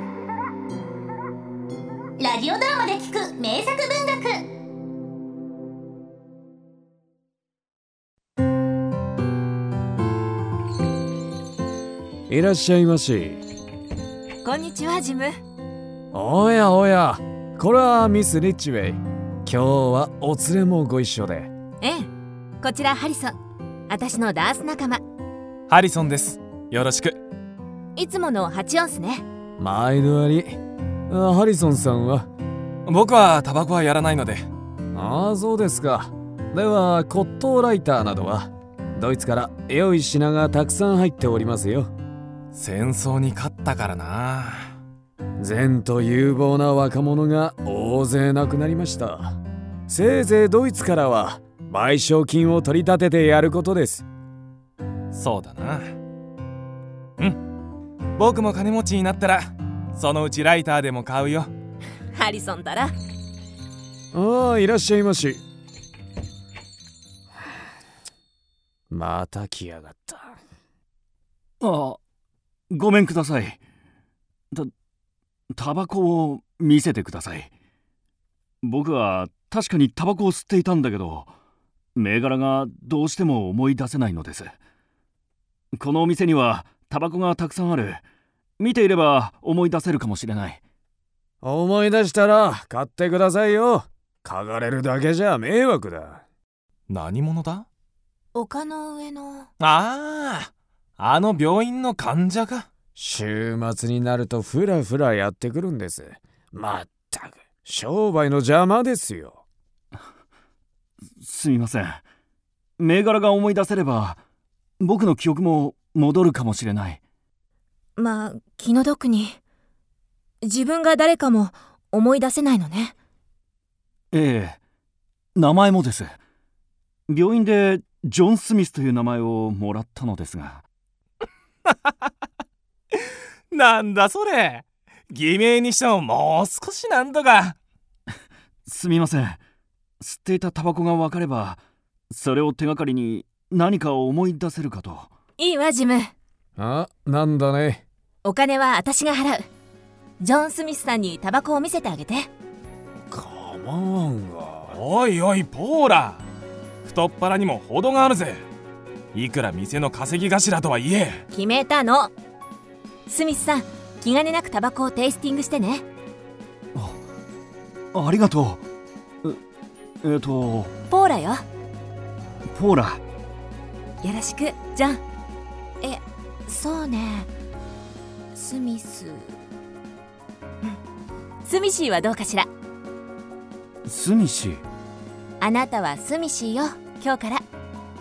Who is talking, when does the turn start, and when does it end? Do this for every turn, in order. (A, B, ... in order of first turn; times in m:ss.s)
0:02.2-0:04.4 A
0:12.3-0:13.4 B
0:14.4-0:15.4 C
0:16.1-0:21.5 B
0:21.8-0:22.1 C
0:22.6-0:23.4 C
0:23.9-0:25.0 C
0:25.7-0:27.2 D
0:28.0-0:29.2 C
0:29.6-0:32.3 B
0:32.9-0:34.5 D
0:34.9-0:41.9 B
0:42.5-0:44.7 D
0:45.4-0:49.4 B
0:49.9-0:54.0 B
0:55.1-0:55.9 D
0:58.2-1:01.5 D
1:02.1-1:02.9 C
1:04.1-1:05.4 B
1:08.9-1:10.3 B
1:11.6-1:12.0 E
1:12.7-1:13.6 E
1:15.5-1:17.5 E
1:18.6-1:21.3 E
1:22.0-1:24.5 E
1:25.8-1:28.0 E
1:28.6-1:30.6 E
1:31.4-1:36.2 B
1:36.9-1:37.7 D
1:38.3-1:39.5 C
1:39.6-1:42.7 D
1:43.0-1:49.4 B
1:51.2-1:52.0 E
1:52.8-1:54.2 E
1:54.8-1:57.0 E
1:58.0-1:59.4 C
2:00.4-2:03.0 C
2:04.1-2:04.6 E
2:05.4-2:06.2 E
2:07.1-2:10.6 E
2:13.5-2:17.6 D
2:18.7-2:19.4 E
2:20.0-2:25.1 E
2:25.4-2:26.1 C
2:26.6-2:27.8 B
2:28.2-2:29.5 C
2:30.2-2:32.3 C
2:33.1-2:34.8 B
2:34.7-2:36.2 D
2:36.8-2:38.5 D
2:39.1-2:41.2 D
2:41.3-2:42.1 C
2:43.1-2:45.8 C
2:47.9-2:48.6 E
2:50.0-2:50.7 E
2:50.9-2:51.4 C
2:52.5-2:53.0 E
2:54.0-2:55.0 C
2:55.8-2:57.3 C
2:58.4-2:59.4 C
3:01.4-3:02.5 C
3:03.9-3:04.6 E
3:05.4-3:07.4 C